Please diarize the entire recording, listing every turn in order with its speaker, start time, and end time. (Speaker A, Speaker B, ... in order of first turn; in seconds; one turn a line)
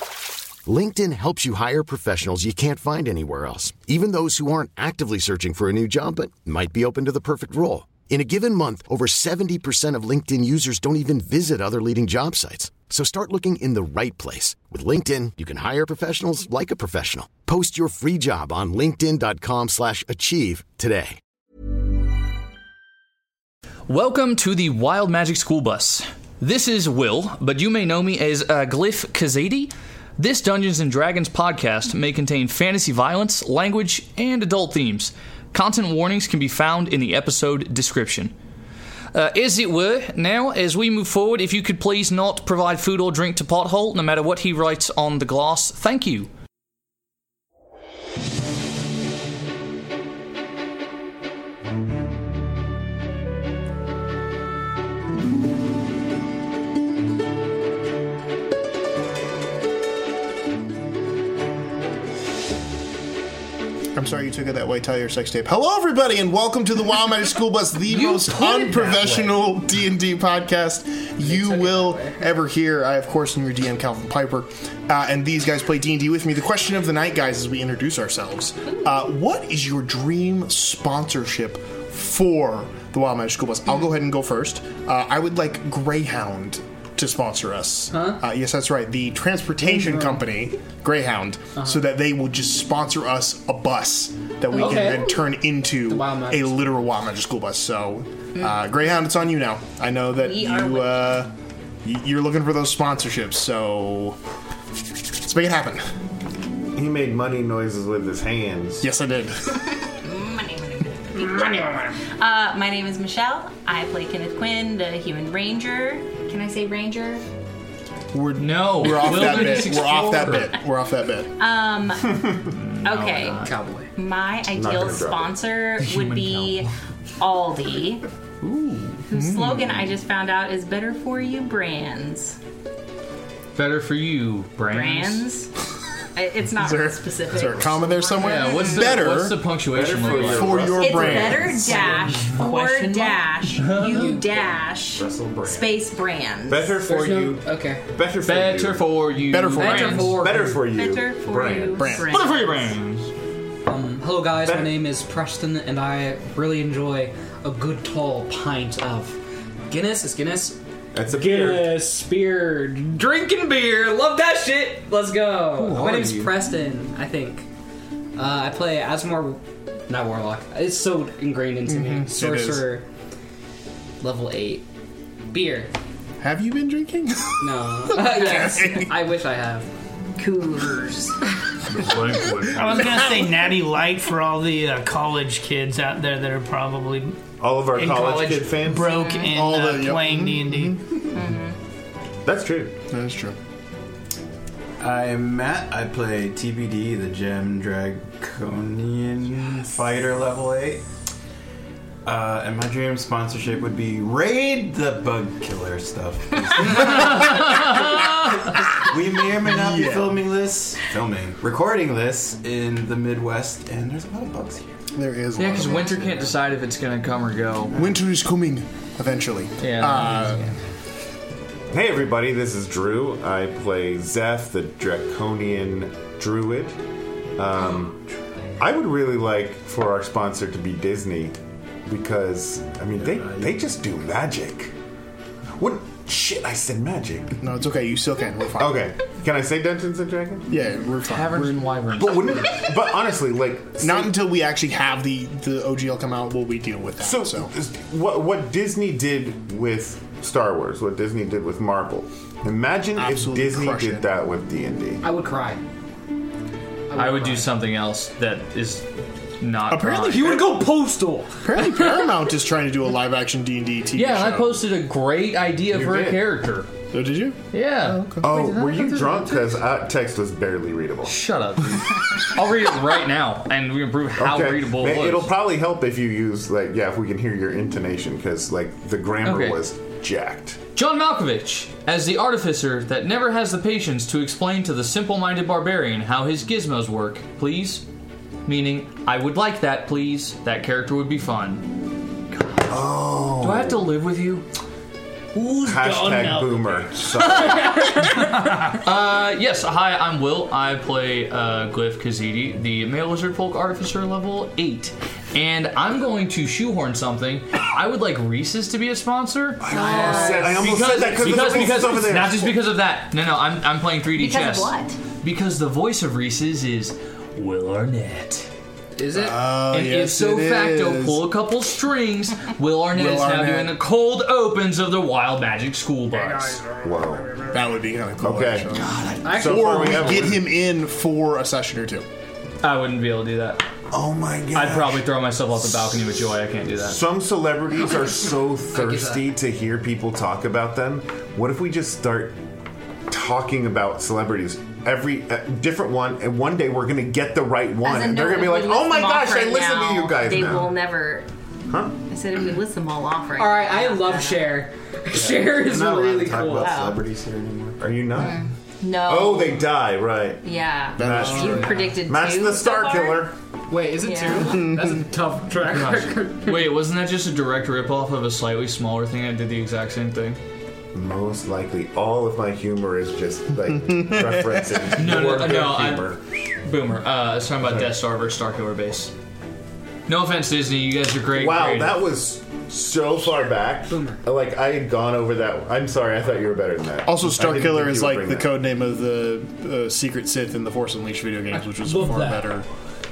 Speaker A: 0.7-21.2
Speaker B: 23.9-38.3
Speaker B: 39.1-46.3
Speaker C: 63.9-101.3
Speaker B: 67.9-69.3
Speaker D: 71.2-72.2
Speaker D: 87.9-88.2
Speaker D: 89.6-90.2
Speaker D: 91.5-91.8
Speaker E: 94.5-95.2
Speaker D: 94.5-95.2
Speaker D: 95.8-96.7
Speaker E: 100.2-101.2
Speaker C: 101.8-104.2
Speaker C: 105.2-105.9
Speaker F: 106.7-108.9
Speaker C: 108.8-109.6
Speaker E: 110.0-117.2
Speaker C: 118.1-121.3
Speaker B: 118.4-120.5
Speaker E: 121.4-122.3
Speaker F: 122.1-122.5
Speaker B: 122.5-123.5
Speaker E: 122.8-128.0
Speaker D: 123.4-123.9
Speaker F: 124.5-125.3
Speaker B: 125.8-126.7
Speaker B: 128.4-129.0
Speaker E: 129.1-132.4
Speaker C: 129.1-129.7
Speaker B: 133.5-135.3
Speaker E: 134.7-135.5
Speaker E: 136.2-139.0
Speaker C: 136.6-139.4
Speaker B: 138.2-140.7
Speaker F: 139.7-141.8
Speaker C: 140.1-141.8
Speaker E: 140.7-146.8
Speaker G: 141.6-143.4
Speaker B: 143.6-144.1
Speaker D: 143.8-144.5
Speaker H: 144.9-145.7
Speaker F: 146.5-149.0
Speaker D: 146.8-147.8
Speaker B: 148.2-150.6
Speaker C: 149.3-150.2
Speaker D: 149.6-150.6
Speaker F: 150.0-152.0
Speaker E: 150.5-152.6
Speaker C: 151.7-152.1
Speaker B: 152.1-153.1
Speaker D: 153.7-159.2
Speaker F: 154.4-154.7
Speaker D: 159.7-167.5
Speaker F: 160.9-161.8
Speaker C: 165.6-166.2
Speaker B: 165.7-166.2
Speaker D: 168.2-172.8
Speaker C: 171.7-172.6
Speaker D: 174.0-174.6
Speaker D: 175.3-175.7
Speaker C: 176.2-177.5
Speaker D: 177.4-179.7
Speaker E: 178.1-178.9
Speaker E: 180.2-181.2
Speaker B: 181.7-182.8
Speaker G: 182.5-187.2
Speaker F: 187.4-189.0
Speaker G: 187.7-190.8
Speaker E: 188.8-189.3
Speaker C: 189.3-190.8
Speaker E: 191.1-191.5
Speaker F: 192.2-192.7
Speaker C: 192.9-193.4
Speaker H: 194.8-200.8
Speaker H: 202.0-207.5
Speaker B: 206.7-208.1
Speaker H: 208.9-214.7
Speaker C: 209.4-210.2
Speaker C: 214.9-216.2
Speaker B: 215.4-217.7
Speaker E: 215.6-215.9
Speaker C: 217.7-220.5
Speaker B: 219.6-220.4
Speaker F: 221.7-226.8
Speaker F: 227.4-228.0
Speaker F: 228.6-234.7
Speaker H: 233.0-233.5
Speaker F: 235.6-237.4
Speaker C: 237.4-238.9
Speaker F: 238.6-240.5
Speaker C: 240.5-241.7
Speaker B: 241.1-242.7
Speaker F: 241.9-244.2
Speaker C: 243.8-247.5
Speaker F: 247.0-255.0
Speaker C: 253.0-254.1
Speaker D: 255.0-255.6
Speaker D: 256.9-257.5
Speaker B: 256.9-258.9
Speaker B: 259.4-261.9
Speaker C: 259.7-260.7
Speaker C: 261.4-264.6
Speaker B: 263.9-266.7
Speaker F: 265.7-266.2
Speaker C: 266.9-268.3
Speaker B: 267.5-269.5
Speaker F: 268.2-271.1
Speaker B: 271.1-275.3
Speaker F: 274.2-280.6
Speaker B: 279.2-279.6
Speaker B: 280.8-287.8
Speaker B: 288.5-291.8
Speaker B: 292.3-292.6
Speaker F: 292.7-293.9
Speaker B: 293.4-294.4
Speaker G: 295.4-296.9
Speaker F: 295.6-297.9
Speaker B: 297.4-298.1
Speaker G: 298.2-298.7
Speaker B: 298.7-318.5
Speaker F: 309.6-312.6
Speaker E: 309.7-310.6
Speaker D: 309.9-310.4
Speaker E: 314.2-315.0
Speaker D: 319.0-319.4
Speaker C: 319.1-321.2
Speaker B: 319.7-326.6
Speaker C: 322.9-323.8
Speaker F: 326.8-327.4
Speaker C: 327.4-332.1
Speaker F: 328.2-328.7
Speaker D: 329.2-330.3
Speaker F: 329.2-330.4
Speaker B: 332.6-333.6
Speaker F: 333.9-335.1
Speaker B: 334.5-337.0
Speaker F: 336.8-342.4
Speaker D: 338.7-339.3
Speaker F: 343.1-350.8
Speaker E: 347.8-351.3
Speaker F: 351.7-351.9
Speaker E: 352.1-354.5
Speaker D: 353.4-356.9
Speaker H: 355.2-357.9
Speaker E: 356.6-357.0
Speaker F: 357.8-358.4
Speaker E: 358.2-359.7
Speaker F: 359.0-360.4
Speaker E: 360.4-363.2
Speaker F: 361.0-363.4
Speaker C: 361.0-361.7
Speaker D: 361.3-361.8
Speaker D: 363.7-366.8
Speaker E: 364.0-364.7
Speaker C: 364.6-364.9
Speaker B: 365.7-370.4
Speaker F: 370.9-376.2
Speaker C: 373.7-374.8
Speaker B: 374.9-376.1
Speaker B: 376.6-379.1
Speaker F: 377.6-377.9
Speaker B: 380.1-382.0
Speaker F: 381.3-388.5
Speaker D: 383.9-384.2
Speaker C: 387.1-392.7
Speaker D: 391.5-392.5
Speaker G: 391.9-392.2